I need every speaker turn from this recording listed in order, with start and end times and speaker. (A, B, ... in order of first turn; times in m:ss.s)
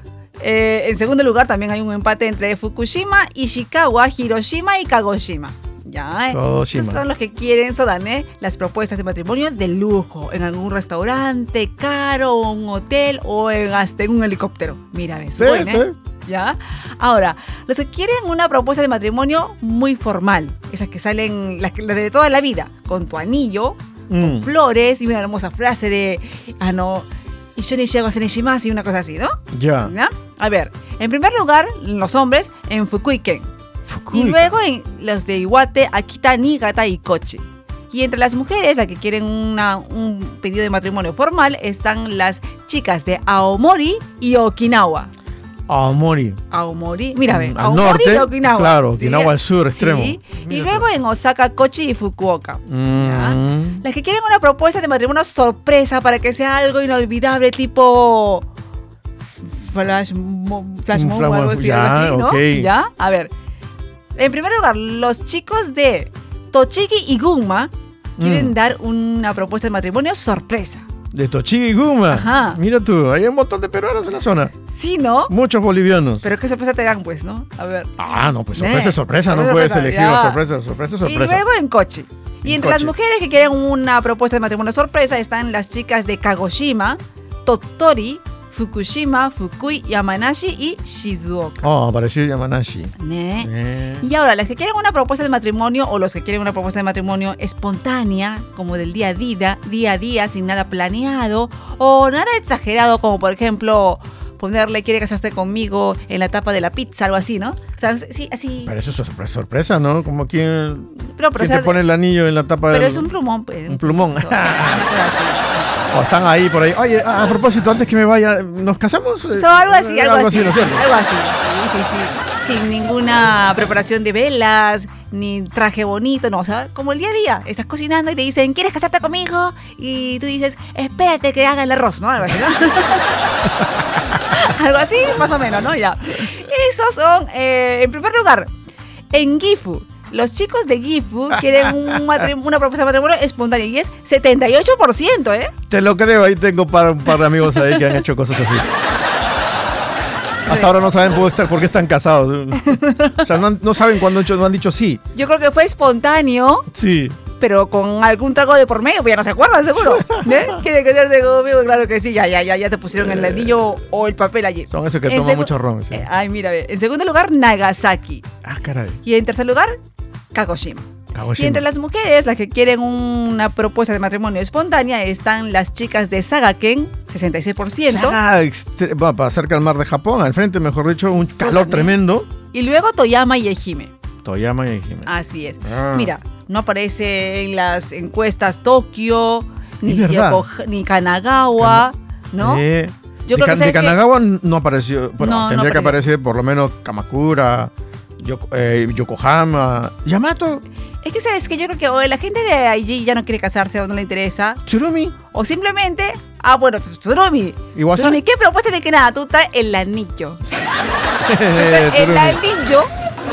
0:00.4-0:33.5 A
0:06.3-0:07.0 B
0:15.4-0:15.9 B
0:24.1-0:24.5 B
0:29.5-0:29.9 B
0:33.9-0:34.6 B
0:34.1-0:45.1 A
0:45.7-0:46.4 B
0:46.5-0:58.5 A
0:47.3-0:50.9 B
0:52.7-0:53.8 B
0:59.4-1:03.3 A
1:00.9-1:02.7 B
1:04.2-1:10.9 A
1:08.2-1:08.6 B
1:11.1-1:14.5 B
1:12.1-1:12.6 A
1:14.6-1:15.3 A
1:15.3-1:16.2 B
1:16.2-1:17.9 A
1:18.0-1:21.4 B
1:18.5-1:20.4 A
1:21.0-1:31.7 A
1:22.4-1:22.9 B
1:31.6-1:34.1 B
1:33.0-1:48.7 A
1:48.6-1:53.1 B
1:51.1-1:51.8 A
1:52.7-1:55.9 A
1:53.7-1:54.8 B
1:55.9-2:00.9 B
1:59.3-2:18.5 A
2:19.1-2:25.5 A
2:25.7-2:28.7 B
2:30.4-2:35.0 B
2:32.6-2:33.2 A
2:35.1-2:36.7 A
2:36.7-2:37.2 B
2:37.4-2:48.2 A
2:39.8-2:40.6 B
2:43.0-2:43.6 B
2:44.7-2:46.0 B
2:48.4-2:49.0 B
2:49.0-2:49.7 A
2:50.3-2:58.2 A
2:51.1-2:51.6 B
2:57.8-3:02.3 B
3:01.0-3:02.0 A
3:02.5-3:03.9 A
3:04.2-3:06.1 B
3:05.0-3:12.6 A
3:09.8-3:10.4 B
3:11.6-3:11.9 B
3:12.4-3:20.6 B
3:13.3-3:14.0 A
3:15.2-3:16.0 A
3:21.0-3:24.6 A
3:24.6-3:25.2 B
3:25.3-3:30.4 A
3:27.7-3:28.2 B
3:31.2-3:32.4 B
3:31.5-3:32.9 A